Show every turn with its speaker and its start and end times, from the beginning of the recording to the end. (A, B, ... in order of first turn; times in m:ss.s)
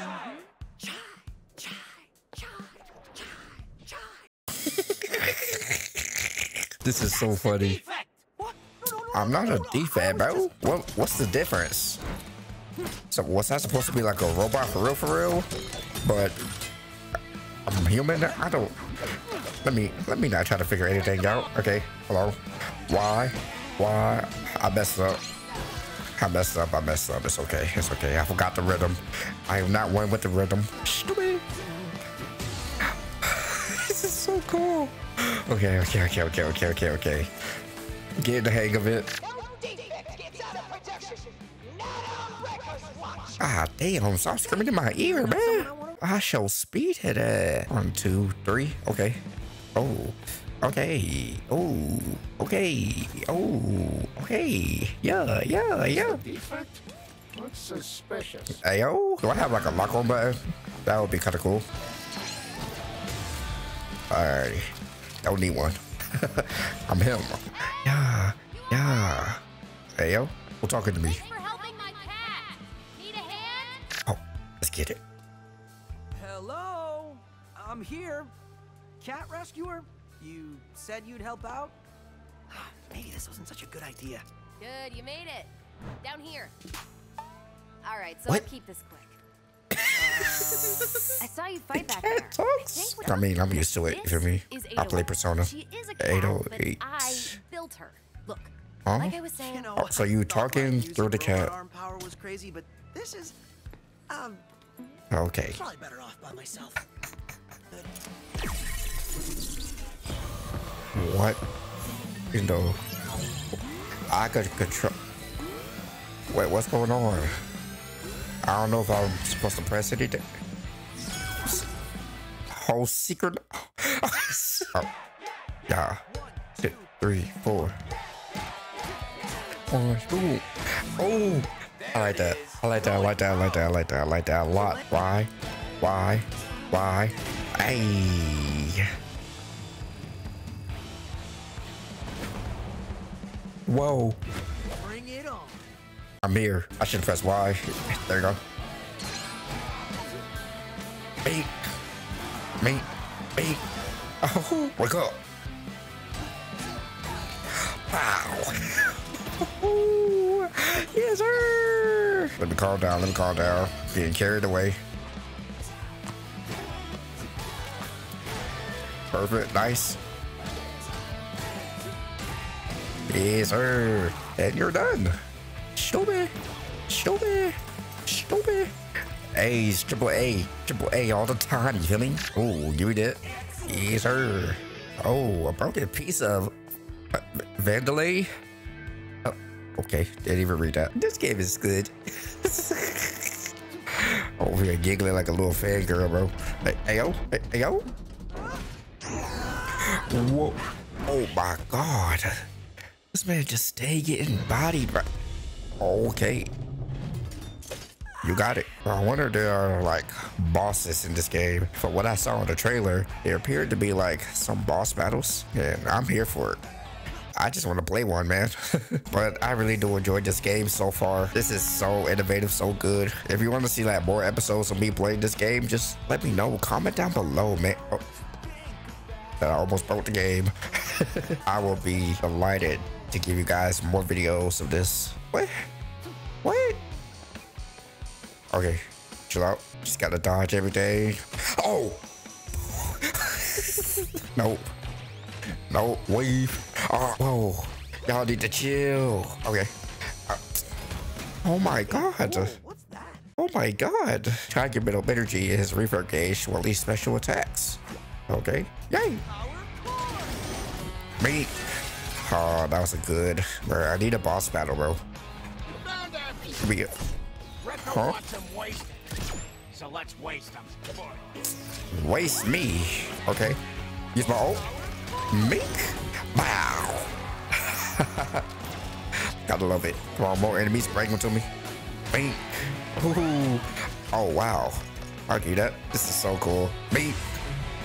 0:00.8-0:04.2 A
0:04.6-0:07.8 B
0:07.5-0:10.6 A
0:07.7-0:08.2 C
0:09.1-0:12.0 B
0:13.1-0:15.5 B
0:16.0-0:16.4 B
0:17.7-0:18.8 B
0:19.6-0:25.2 B
0:26.2-0:31.4 B
0:33.2-0:37.3 B
0:38.2-0:39.1 B
0:39.2-0:41.2 C
0:42.2-0:43.3 C
0:43.4-0:49.2 B
0:45.0-0:46.0 A
0:49.8-0:56.2 B
0:55.9-0:58.5 D
0:58.5-1:01.7 B
1:04.1-1:09.4 B
1:08.5-1:09.2 E
1:09.9-1:11.2 B
1:11.0-1:13.9 E
1:14.0-1:15.0 B
1:16.1-1:18.3 A
1:19.0-1:21.8 A
1:22.5-1:24.2 A
1:24.6-1:26.5 E
1:27.8-1:29.2 E
1:29.7-1:31.2 B
1:29.9-1:31.0 A
1:31.2-1:39.7 E
1:31.7-1:37.3 B
1:38.8-1:39.2 B
1:39.4-1:43.4 A
1:39.8-1:41.5 B
1:44.1-1:44.4 A
1:45.1-1:45.6 B
1:45.5-1:46.9 A
1:47.7-1:47.9 A
1:50.9-1:51.4 B
1:52.3-1:52.8 B
1:54.1-1:55.0 B
1:56.3-1:57.3 B
1:58.4-2:00.3 B
2:02.5-2:04.9 B
2:05.7-2:06.0 B
2:06.0-2:06.9 A
2:06.6-2:07.8 B
2:09.7-2:18.9 B
2:11.8-2:13.1 C
2:14.5-2:15.0 A
2:23.7-2:24.2 B
2:24.8-2:25.7 A
2:26.2-2:28.4 B
2:31.2-2:31.5 B
2:32.6-2:33.6 B
2:34.2-2:35.2 B
2:37.5-2:44.8 B
2:49.1-2:50.0 B
2:53.1-2:55.2 B
2:55.8-2:56.3 B
2:56.9-2:58.7 B
2:59.3-3:06.5 B
3:07.1-3:08.3 B
3:09.2-3:17.9 B
3:19.8-3:22.4 B
3:23.1-3:25.0 B
3:25.8-3:26.5 B
3:28.2-3:36.6 B
3:37.3-3:48.0 B
3:48.4-3:49.0 A
3:49.4-3:55.7 B
3:56.4-3:56.8 B
3:58.5-4:02.0 B
4:02.6-4:04.7 B
4:05.7-4:09.7 B
4:10.3-4:10.6 B
4:11.4-4:12.6 B
4:11.8-4:13.2 A
4:13.4-4:19.2 B
4:19.2-4:20.5 A
4:21.2-4:21.6 B
4:22.2-4:25.0 B
4:25.8-4:26.4 C
4:26.6-4:26.9 B
4:27.6-4:28.9 C
4:27.8-4:28.2 B
4:29.7-4:31.2 C
4:31.9-4:33.6 B
4:34.1-4:34.6 B
4:34.4-4:35.6 A
4:35.3-4:38.4 B
4:39.4-4:41.5 B
4:42.1-4:47.2 B